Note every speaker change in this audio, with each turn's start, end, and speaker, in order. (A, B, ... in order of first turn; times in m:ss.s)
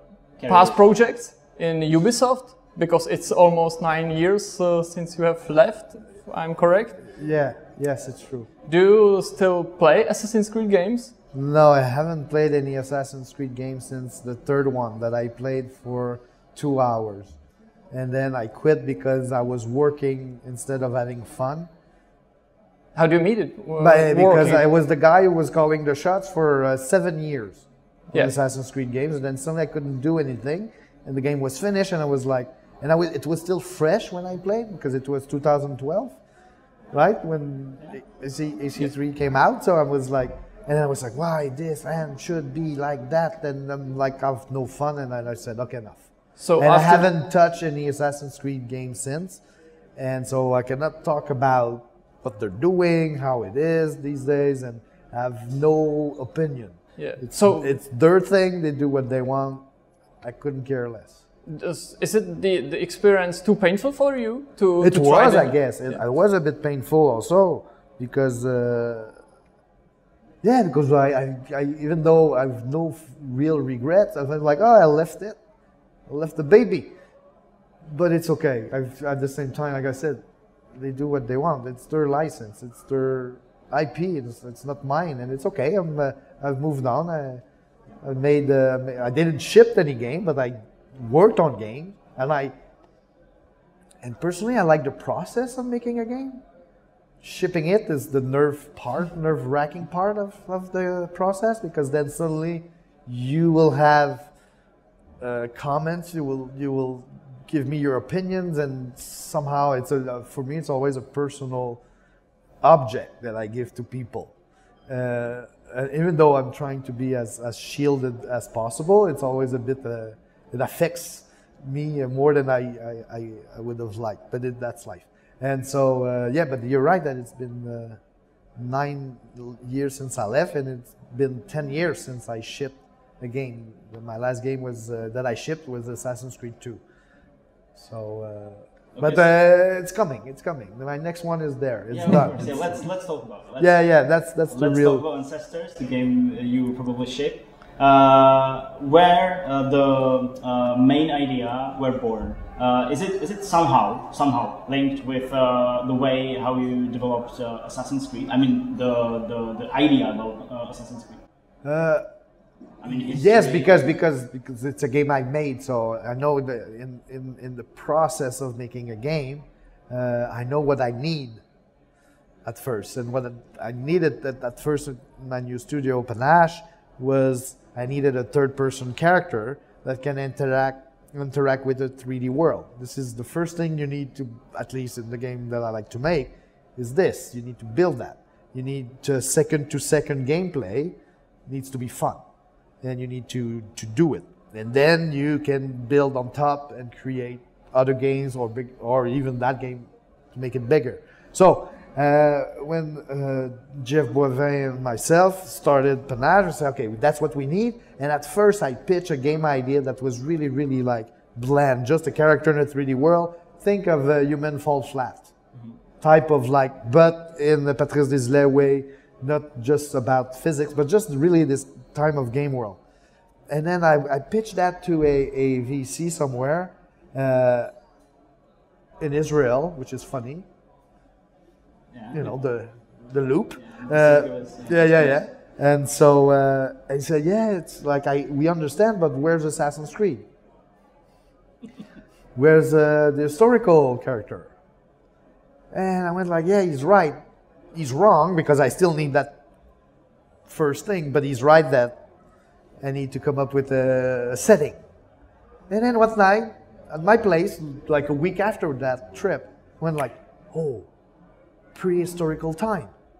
0:00.4-0:00.8 A
0:00.4-0:07.0 B
0:07.2-0:08.5 C
0:08.7-0:11.1 B
0:11.3-0:17.4 C
0:17.9-0:21.7 C
0:22.9-0:24.6 B
0:23.8-0:36.2 C
0:36.9-0:49.4 C
0:46.4-0:47.1 B
0:50.0-0:59.6 C
0:57.0-0:57.7 B
1:00.2-1:01.2 C
1:01.5-1:06.0 B
1:04.8-1:09.2 C
1:10.4-1:15.4 C
1:16.1-1:16.9 C
1:17.9-1:20.2 C
1:20.7-1:27.4 C
1:28.0-1:32.6 C
1:34.0-1:36.4 C
1:37.2-1:44.3 C
1:45.2-1:51.8 C
1:52.6-1:54.3 C
1:54.9-2:08.0 C
2:08.6-2:16.8 C
2:17.7-2:22.9 C
2:18.9-2:19.3 A
2:21.9-2:23.9 A
2:23.6-2:25.0 C
2:24.5-2:41.2 A
2:41.6-2:42.0 C
2:42.8-2:43.9 A
2:42.8-2:51.4 C
2:52.4-3:12.2 C
3:12.8-3:35.3 C
3:36.0-3:42.8 C
3:43.5-3:47.7 C
3:49.0-3:50.4 C
3:51.9-3:52.3 A
3:52.1-4:00.2 C
3:53.6-3:55.3 A
4:02.3-4:04.5 C
4:05.7-4:07.2 C
4:07.7-4:09.4 C
4:10.5-4:12.0 C
4:12.8-4:14.8 C
4:15.7-4:20.9 C
4:21.7-4:22.9 C